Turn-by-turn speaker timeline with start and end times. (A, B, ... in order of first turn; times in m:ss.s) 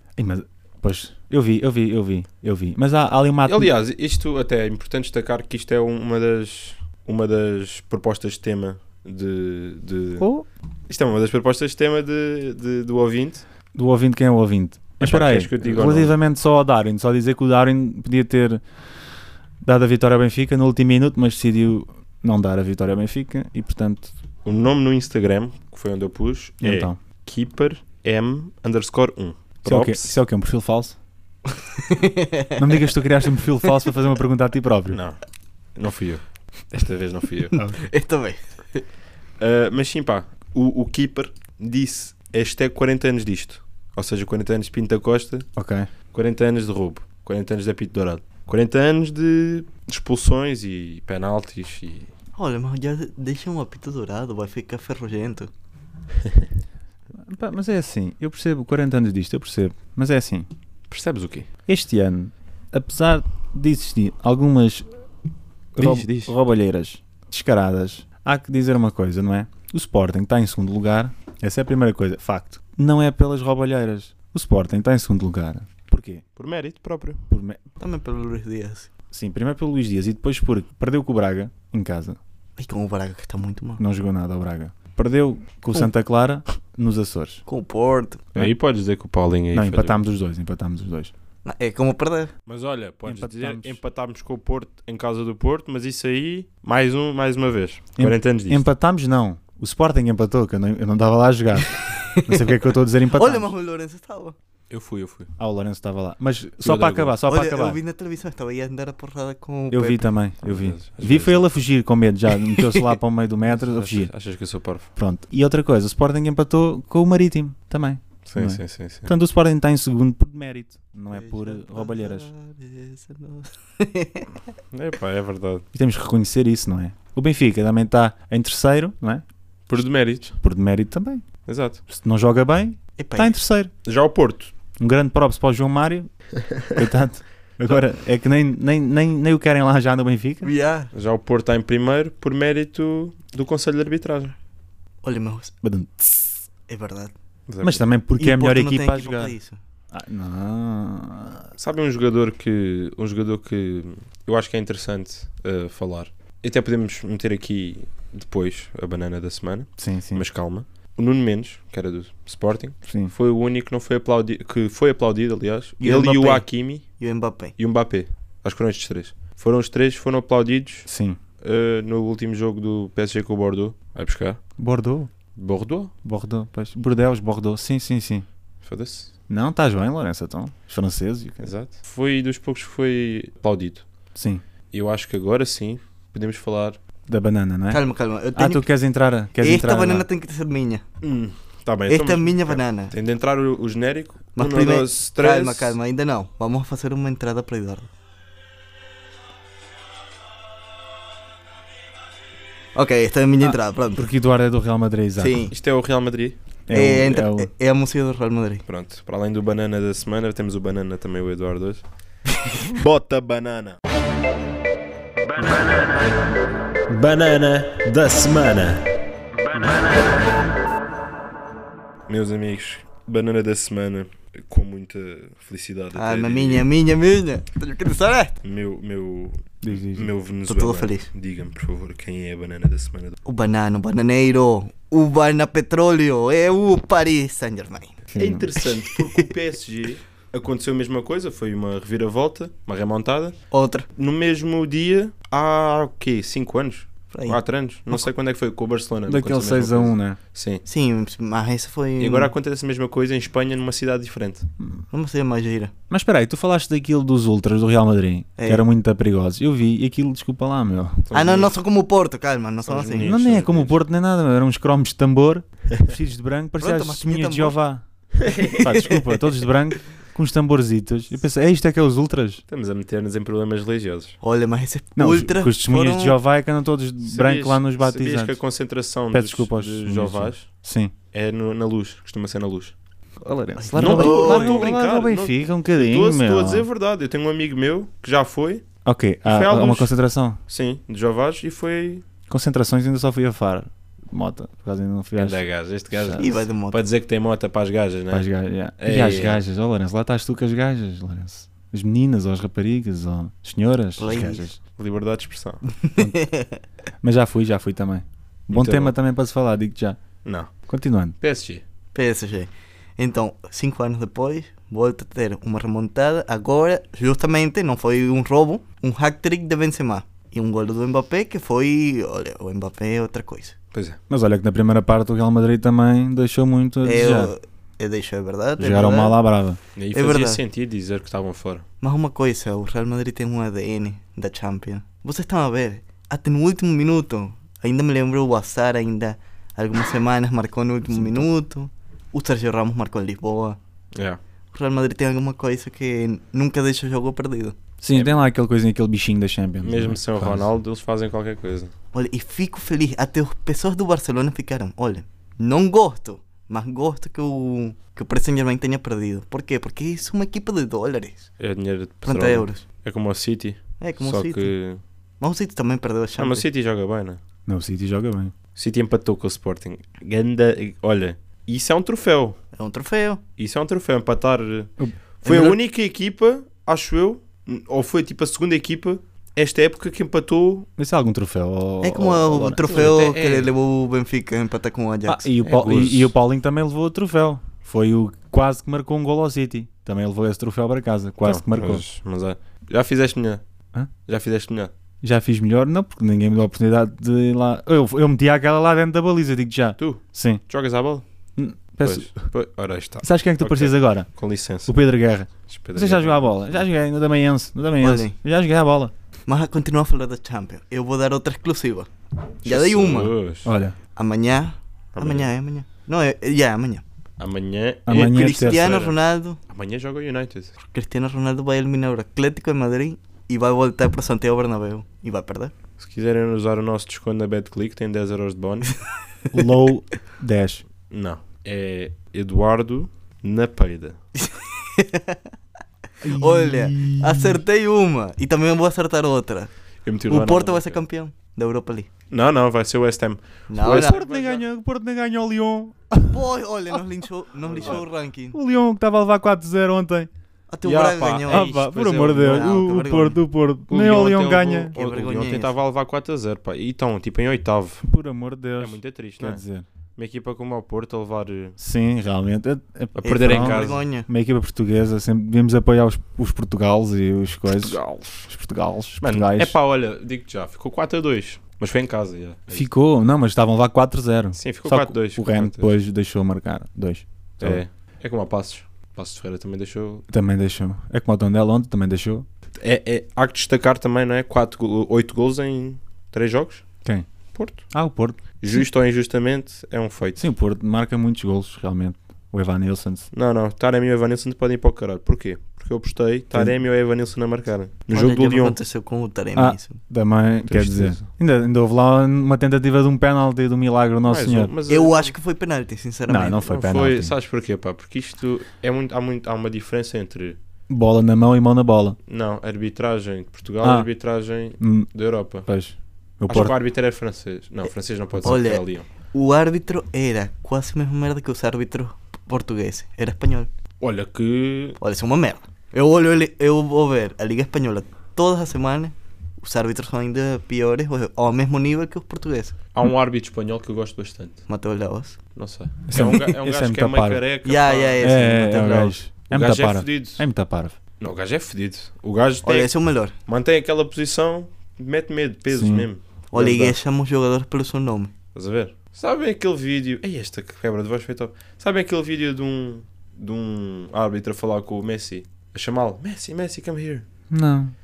0:00.2-0:03.7 A
0:03.4-0:10.3 B
0:10.2-0:10.5 A
0:10.9-0:13.4 B
0:13.7-0:18.6 A
0:15.0-0:16.2 B
0:19.6-0:24.1 A
0:24.4-0:30.2 B
0:26.6-0:27.0 A
0:29.6-0:31.0 A
0:31.8-0:32.9 C
0:32.6-0:35.0 A
0:34.9-0:35.2 B
0:35.8-0:37.6 B
0:37.5-0:38.8 C
0:37.6-0:37.8 A
0:39.4-0:45.4 B
0:45.6-0:45.9 A
0:46.1-0:52.1 B
0:52.4-0:55.5 C
0:57.2-1:00.5 A
1:00.9-1:01.5 B
1:01.7-1:04.9 A
1:05.8-1:06.3 B
1:05.8-1:16.2 A
1:16.4-1:17.2 B
1:17.3-1:17.6 A
1:17.8-1:18.9 C
1:19.1-1:22.2 A
1:22.6-1:23.8 C
1:23.8-1:27.4 A
1:27.5-1:28.3 C
1:28.3-1:30.0 B
1:29.5-1:31.1 A
1:31.4-1:32.3 C
1:32.4-1:38.6 B
1:33.0-1:33.8 A
1:38.0-1:43.5 A
1:42.2-1:42.5 C
1:43.1-1:44.4 C
1:44.7-1:45.3 B
1:45.4-1:47.8 A
1:46.6-1:47.2 B
1:47.3-1:50.1 C
1:49.7-1:54.1 A
1:50.4-1:51.5 B
1:52.4-1:52.9 C
1:53.4-1:54.9 B
1:55.0-2:02.3 A
1:58.2-1:59.1 B
2:01.1-2:04.4 C
2:04.7-2:05.6 B
2:05.7-2:09.2 A
2:09.7-2:10.4 B
2:10.4-2:11.2 A
2:11.4-2:11.8 B
2:11.9-2:13.7 A
2:13.0-2:13.3 C
2:13.8-2:14.5 B
2:14.8-2:16.1 A
2:16.7-2:20.5 A
2:20.4-2:20.9 C
2:20.9-2:24.3 B
2:25.0-2:25.5 C
2:25.6-2:26.4 A
2:26.7-2:27.1 C
2:27.5-2:27.8 B
2:27.6-2:29.3 A
2:28.2-2:29.6 C
2:29.9-2:31.5 A
2:31.6-2:46.8 B
2:39.8-2:40.2 A
2:42.8-2:43.1 A
2:45.8-2:47.6 C
2:47.6-2:50.9 B
2:50.9-2:51.2 A
2:51.4-2:54.4 B
2:54.6-2:55.1 A
2:55.3-2:55.9 B
2:56.0-2:58.2 A
2:58.6-2:59.1 B
2:59.3-3:01.5 A
3:01.4-3:03.8 B
3:04.1-3:04.4 A
3:04.7-3:06.8 B
3:07.1-3:07.8 A
3:07.7-3:08.7 C
3:08.3-3:10.0 A
3:09.4-3:10.8 C
3:11.0-3:15.8 B
3:11.9-3:12.9 C
3:14.4-3:17.9 C
3:22.7-3:24.1 C
3:23.4-3:25.4 A
3:25.2-3:25.5 C
3:25.5-3:26.4 B
3:26.7-3:27.5 A
3:26.7-3:28.6 C
3:28.7-3:31.8 B
3:32.7-3:33.8 B
3:35.3-3:36.1 B
3:36.9-3:38.9 B
3:39.5-3:40.0 B
3:42.1-3:46.7 B
3:45.9-3:48.4 C
3:48.4-3:53.2 B
3:49.6-3:50.1 A
3:50.5-3:51.1 C
3:53.2-3:58.0 C
3:58.1-3:58.5 A
3:58.2-4:03.4 B
3:58.6-3:59.2 C
4:03.5-4:03.9 C
4:04.0-4:10.6 B
4:07.1-4:07.4 C
4:09.0-4:10.2 A
4:10.6-4:12.3 C
4:12.0-4:14.5 B
4:14.9-4:15.7 C
4:15.9-4:21.1 A
4:18.4-4:18.6 C
4:21.1-4:21.5 B
4:21.1-4:23.1 C
4:22.6-4:23.8 B
4:23.0-4:32.4 A
4:26.6-4:27.6 C
4:28.2-4:28.6 B
4:28.7-4:29.2 C
4:32.5-4:34.2 B
4:34.2-4:36.2 C
4:35.0-4:38.4 A
4:37.0-4:40.5 B
4:39.1-4:40.9 A
4:41.1-4:42.7 B
4:43.2-4:46.7 A
4:43.6-4:44.7 C
4:43.7-4:48.6 B
4:48.8-4:50.4 A
4:49.2-4:49.9 B
4:50.5-4:52.0 B
4:52.3-4:56.2 A
4:55.2-4:58.3 B
4:56.2-4:56.8 C
4:58.1-5:04.6 A
4:58.8-4:59.4 B
5:04.0-5:04.4 C
5:04.8-5:05.6 B
5:05.7-5:06.6 C
5:06.0-5:06.2 A
5:07.0-5:10.0 A
5:08.5-5:09.0 B
5:10.2-5:10.5 B
5:10.7-5:11.2 A
5:11.2-5:11.6 B
5:11.9-5:23.6 C
5:23.7-5:24.0 B
5:24.1-5:27.3 A
5:26.8-5:29.2 C
5:28.6-5:29.6 A
5:29.8-5:31.6 B
5:29.9-5:30.4 C
5:31.8-5:43.6 C
5:40.9-5:41.3 A
5:43.9-5:44.2 B
5:44.5-5:47.6 C
5:47.8-5:50.5 A
5:47.9-5:48.2 B
5:49.6-5:51.7 B
5:51.9-6:01.3 C
6:01.4-6:04.8 B
6:02.0-6:02.6 C
6:03.8-6:04.5 C
6:05.2-6:06.4 C
6:06.2-6:07.2 B
6:07.4-6:08.3 A
6:08.5-6:12.4 B
6:12.5-6:13.2 C
6:13.4-6:20.7 B
6:15.2-6:15.6 C
6:20.8-6:23.0 A
6:21.8-6:25.3 C
6:22.6-6:23.5 B
6:25.1-6:31.8 A
6:25.4-6:26.1 B
6:31.2-6:33.4 B
6:34.0-6:34.7 B
6:35.0-6:40.4 A
6:39.8-6:41.0 B
6:41.4-6:42.3 A
6:41.8-6:44.8 B
6:43.0-6:44.1 A
6:44.6-6:48.9 A
6:45.5-6:46.6 B
6:47.8-6:48.2 C
6:49.3-6:51.9 C
6:52.4-6:53.2 C
6:52.4-6:53.5 B
6:53.4-6:53.8 A
6:54.0-6:56.8 C
6:55.0-6:55.3 B
6:57.2-6:59.0 B
6:57.8-6:58.7 A
6:57.9-6:59.4 C
6:59.5-7:00.5 B
7:00.6-7:05.5 C
7:05.8-7:08.7 B
7:09.3-7:10.6 A
7:10.9-7:14.0 B
7:14.2-7:15.2 C
7:16.0-7:17.4 A
7:16.0-7:19.5 C
7:19.8-7:20.8 B
7:20.1-7:21.9 C
7:22.1-7:24.4 B
7:23.5-7:24.0 C
7:23.7-7:26.8 A
7:26.0-7:28.4 C
7:27.5-7:27.8 B
7:27.6-7:30.1 A
7:30.5-7:31.5 C
7:30.6-7:32.5 B
7:31.3-7:34.7 A
7:32.1-7:33.2 C
7:33.7-7:37.8 B
7:34.7-7:35.5 C
7:37.8-7:39.6 A
7:38.6-7:39.4 B
7:40.0-7:41.6 B
7:41.6-7:49.6 A
7:43.0-7:43.8 B
7:43.0-7:44.1 C
7:47.5-7:48.3 B
7:49.0-7:52.7 B
7:52.5-7:57.6 A
7:54.3-7:55.7 B
7:57.4-8:00.0 B
8:00.1-8:02.2 A
8:02.6-8:06.6 B
8:07.3-8:07.6 B
8:07.7-8:08.6 A
8:08.4-8:10.3 B
8:10.2-8:13.1 A
8:13.1-8:18.6 B
8:17.9-8:19.8 C
8:19.3-8:24.5 A
8:20.4-8:21.0 B
8:24.0-8:25.1 B
8:24.7-8:26.4 C
8:26.1-8:27.1 A
8:26.4-8:30.4 B
8:30.7-8:32.0 A
8:32.1-8:35.5 B
8:33.6-8:33.9 A
8:34.6-8:34.9 A
8:35.4-8:36.6 A
8:36.3-8:38.9 B
8:38.2-8:43.5 C
8:43.8-8:44.8 B
8:44.8-8:52.6 C
8:52.7-8:54.4 B
8:54.5-8:55.2 C
8:55.3-8:58.1 B
8:55.9-8:57.2 A
8:57.4-8:58.9 C
8:58.0-9:00.8 A
8:59.3-9:00.2 B
9:01.0-9:02.7 B
9:02.4-9:03.1 C
9:03.2-9:06.8 B
9:05.5-9:05.9 A
9:06.3-9:08.1 C
9:08.3-9:17.0 B
9:17.3-9:17.7 A